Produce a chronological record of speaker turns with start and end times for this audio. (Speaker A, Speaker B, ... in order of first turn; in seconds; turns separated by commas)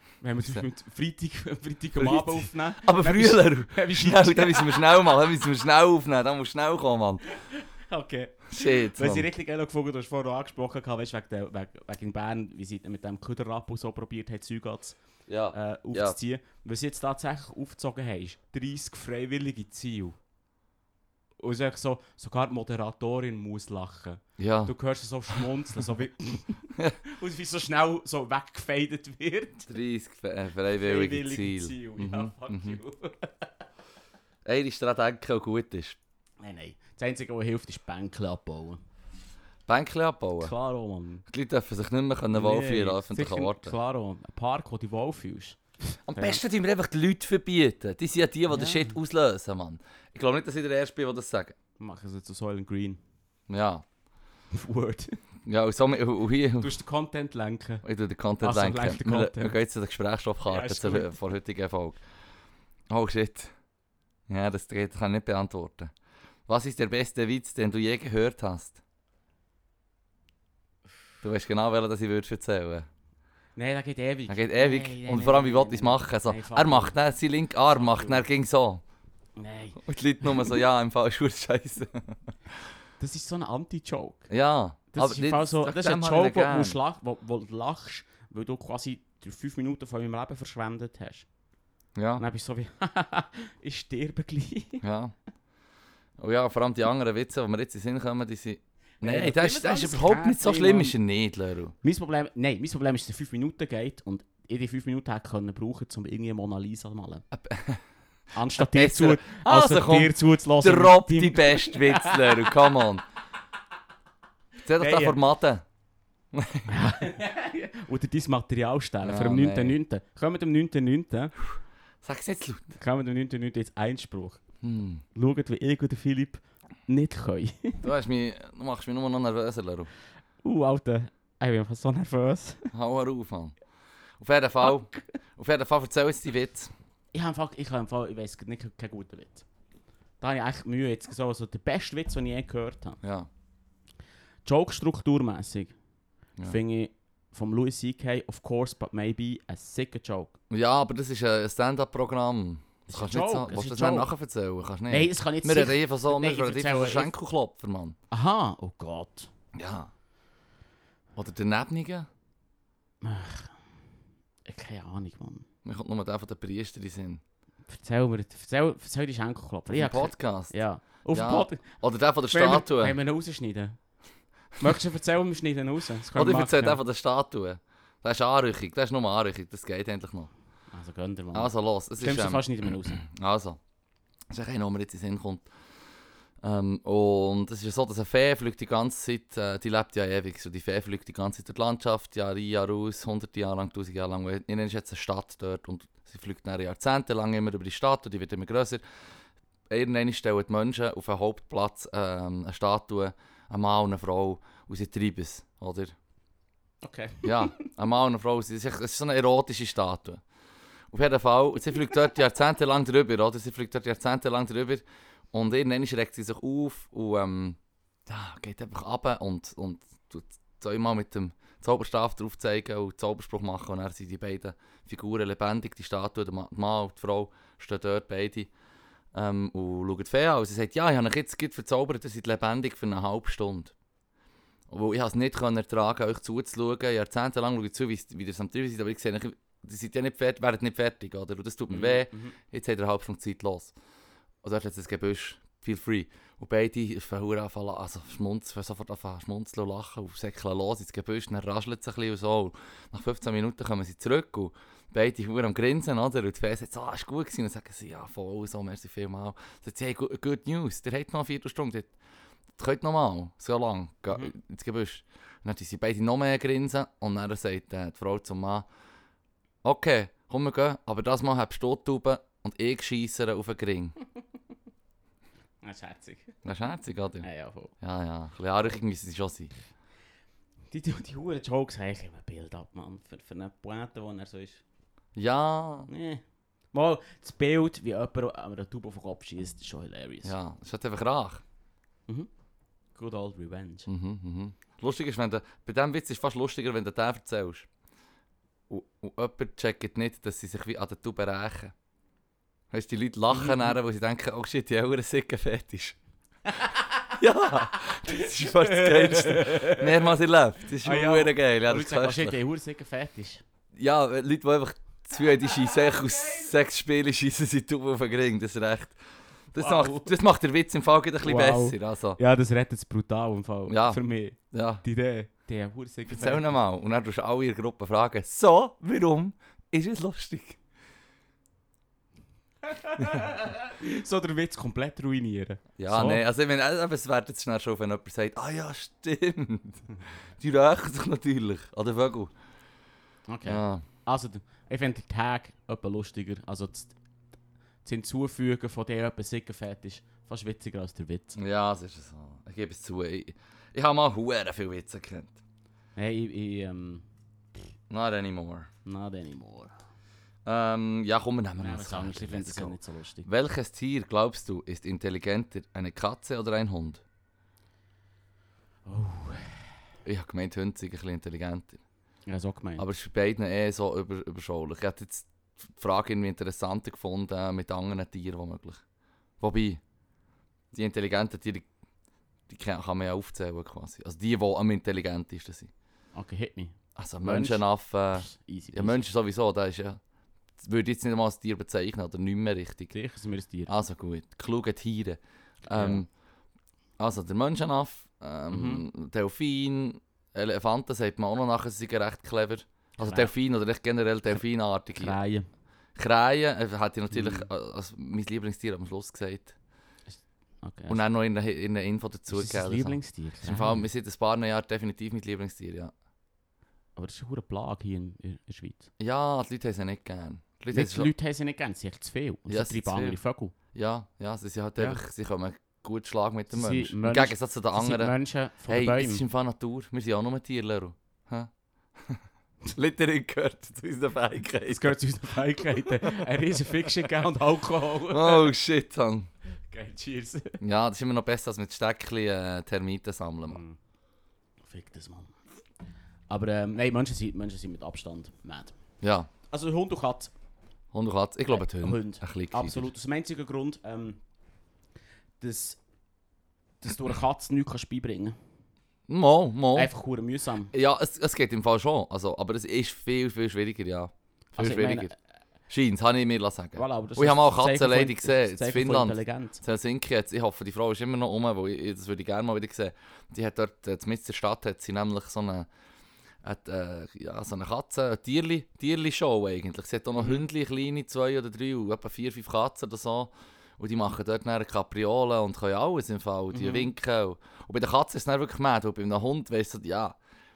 Speaker A: 0.2-4.9, Speaker B: 2.0-7.3, Speaker A: 7.3-15.0, Speaker B: 8.5-9.3, Speaker B: 15.3-16.2, Speaker A: 15.5-20.2, Speaker A: 21.4-29.7, Speaker B: 24.4-24.7, Speaker B: 29.7-32.8, Speaker A: 30.8-33.5, Speaker B: 34.5-36.0, Speaker A: 36.4-38.8, Speaker B: 39.7-40.5, Speaker A: 40.4-41.2, Speaker B: 41.3-43.8, Speaker A: 42.3-46.4, Speaker B: 46.1-51.6, Speaker A: 48.5-49.0, Speaker A: 51.8-53.0, Speaker B: 53.5-53.9, Speaker A: 54.5-55.2, Speaker B: 55.5-56.7, Speaker A: 56.6-57.9, Speaker B: 57.8-62.0, Speaker A: 58.4-59.6, Speaker A: 60.5-61.2, Speaker B: 62.9-63.5, Speaker B: 64.3-65.9, Speaker B: 66.5-68.8, Speaker B: 71.2-72.9, Speaker A: 73.6-77.0, Speaker B: 74.3-78.8, Speaker A: 77.7-78.3, Speaker A: 79.4-80.6, Speaker B: 79.8-82.2, Speaker A: 83.0-84.3, Speaker B: 84.3-86.8, Speaker A: 84.9-91.3, Speaker B: 92.0-92.2, Speaker A: 92.2-94.8, Speaker B: 94.8-95.1, Speaker B: 96.2-101.7, Speaker A: 99.0-101.0, Speaker A: 101.8-107.2, Speaker B: 107.3-107.8, Speaker A: 108.3-112.7, Speaker B: 108.6-113.0, Speaker B: 114.7-115.6, Speaker A: 114.8-115.2, Speaker B: 116.3-116.7, Speaker A: 116.7-121.3, Speaker B: 119.0-119.8, Speaker B: 122.0-122.8, Speaker A: 122.8-124.4, Speaker B: 124.6-125.0, Speaker A: 125.2-127.8, Speaker B: 127.8-129.9, Speaker A: 130.4-132.7, Speaker B: 132.7-133.6, Speaker B: 134.2-136.7, Speaker A: 134.6-135.0, Speaker A: 137.1-139.4, Speaker A: 140.2-143.0, Speaker B: 143.0-143.3, Speaker A: 144.4-145.8, Speaker A: 146.4-150.3, Speaker B: 150.5-158.0, Speaker A: 152.9-154.1, Speaker A: 154.9-157.1, Speaker A: 158.1-159.3, Speaker B: 159.5-159.9, Speaker B: 161.2-162.1, Speaker A: 163.0-163.6, Speaker A: 164.5-165.5, Speaker B: 165.7-167.2, Speaker A: 167.7-171.7, Speaker B: 169.7-170.5, Speaker B: 171.1-173.0, Speaker A: 172.3-173.8, Speaker A: 174.6-176.8, Speaker B: 176.2-180.3, Speaker A: 180.7-183.1, Speaker B: 181.3-182.4, Speaker B: 183.0-183.6, Speaker B: 184.3-185.5, Speaker B: 186.4-198.8, Speaker B: 199.7-205.9, Speaker A: 206.8-207.7, Speaker B: 207.2-210.2, Speaker B: 210.9-228.5, Speaker B: 229.1-233.7, Speaker B: 234.7-243.7, Speaker A: 241.7-242.4, Speaker B: 244.4-261.9, Speaker B: 262.6-268.7, Speaker B: 269.6-274.0, Speaker A: 275.6-276.4, Speaker B: 276.4-277.3, Speaker A: 277.2-277.7, Speaker B: 277.8-279.5, Speaker A: 280.7-284.6, Speaker B: 285.1-285.9, Speaker A: 285.9-290.4, Speaker B: 290.2-291.4, Speaker A: 292.9-293.9, Speaker B: 293.9-297.7, Speaker B: 298.7-301.7, Speaker B: 302.7-306.0, Speaker A: 303.3-303.7, Speaker A: 306.5-306.9, Speaker B: 307.1-312.4, Speaker A: 307.7-310.1, Speaker A: 310.8-313.4, Speaker B: 313.8-319.0, Speaker B: 319.5-322.2, Speaker A: 319.6-320.1, Speaker A: 321.2-326.6, Speaker B: 323.7-324.0, Speaker B: 324.5-324.8, Speaker B: 326.1-330.6, Speaker A: 332.7-336.2, Speaker B: 335.8-342.3, Speaker A: 343.3-346.9, Speaker B: 343.4-343.8, Speaker A: 347.9-351.4, Speaker B: 351.4-355.4, Speaker A: 356.0-357.0, Speaker B: 357.9-358.7, Speaker A: 358.9-359.7, Speaker B: 360.4-367.0, Speaker A: 361.6-363.3, Speaker A: 368.9-369.6, Speaker B: 370.1-371.8, Speaker A: 372.3-372.9, Speaker B: 372.8-378.8, Speaker B: 379.4-379.8, Speaker B: 380.7-381.7, Speaker B: 382.5-385.7, Speaker A: 386.1-389.0, Speaker B: 387.0-390.0, Speaker B: 390.6-392.9, Speaker A: 392.9-393.7, Speaker B: 393.7-396.1, Speaker A: 395.7-396.0, Speaker B: 397.0-405.2, Speaker A: 398.5-398.9, Speaker A: 403.0-403.3, Speaker A: 405.0-405.5, Speaker B: 406.0-409.5, Speaker A: 407.1-407.5, Speaker A: 410.1-411.0, Speaker B: 410.9-415.9, Speaker A: 412.3-413.9, Speaker A: 417.0-418.9, Speaker B: 419.0-421.1, Speaker A: 420.7-423.6, Speaker B: 422.5-423.2, Speaker B: 423.7-428.1, Speaker A: 426.5-429.2, Speaker B: 428.7-434.9, Speaker A: 434.7-438.5, Speaker B: 438.1-439.3, Speaker A: 439.7-440.6, Speaker B: 440.6-443.6, Speaker A: 443.5-443.8, Speaker A: 444.6-445.4, Speaker A: 446.3-448.8, Speaker B: 449.0-449.3, Speaker A: 449.5-450.3, Speaker B: 450.9-452.9, Speaker A: 451.5-454.2, Speaker A: 455.4-455.8, Speaker A: 456.8-458.4, Speaker B: 459.1-459.9, Speaker A: 459.7-460.7, Speaker B: 460.7-465.1, Speaker A: 464.6-465.2, Speaker B: 465.7-475.7, Speaker A: 466.8-469.6, Speaker B: 476.4-490.2, Speaker A: 480.2-480.4, Speaker A: 486.5-486.9